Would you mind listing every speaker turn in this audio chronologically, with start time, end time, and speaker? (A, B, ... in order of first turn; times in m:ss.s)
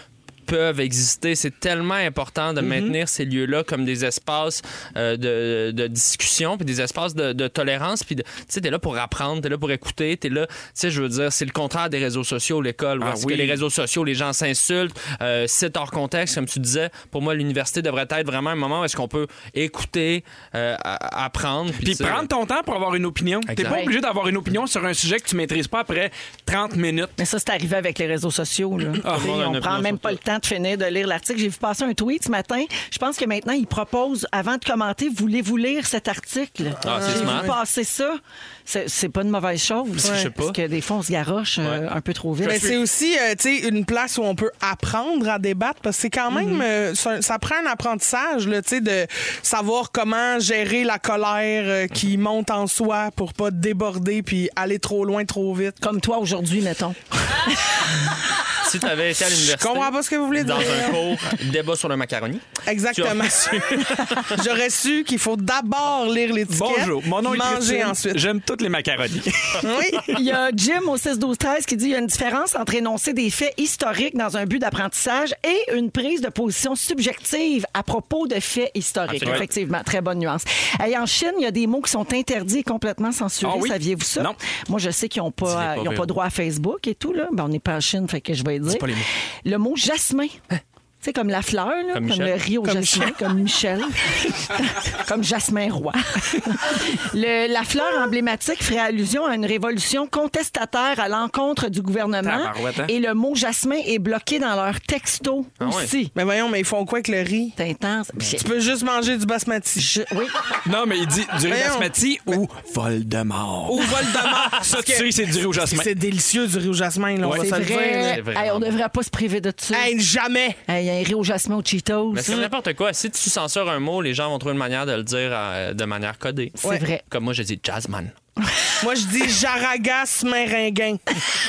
0:00.4-0:22.3 A
0:02.6-0:03.0 B
0:13.0-0:13.6 B
0:21.8-0:27.1 B
0:23.5-0:23.8 A
0:23.6-0:23.9 C
0:27.2-0:42.8 C
0:29.0-0:29.4 B
0:29.0-0:30.2 A
0:36.8-0:37.5 A
0:36.8-0:37.5 D
0:40.0-0:40.6 A
0:42.4-0:55.8 D
0:55.8-0:57.9 C
0:58.6-1:04.4 A
0:59.4-1:01.0 D
1:02.7-1:08.2 D
1:06.5-1:10.0 B
1:09.6-1:10.2 D
1:10.1-1:28.9 C
1:19.1-1:19.5 A
1:23.4-1:24.4 B
1:25.4-1:26.1 A
1:28.7-1:29.1 A
1:29.4-1:30.4 C
1:31.0-1:46.1 C
1:31.9-1:32.4 A
1:42.2-1:42.9 B
1:45.6-1:45.9 A
1:46.1-1:47.6 D
1:47.6-1:48.5 C
1:48.2-1:49.9 D
1:49.8-1:50.3 C
1:50.6-1:55.9 B
1:51.5-1:51.9 D
1:53.7-1:58.2 D
1:57.3-1:59.9 C
1:57.9-1:58.8 A
1:59.7-2:00.6 D
2:00.7-2:02.4 C
2:02.1-2:08.1 A
2:06.6-2:07.0 C
2:08.8-2:11.0 D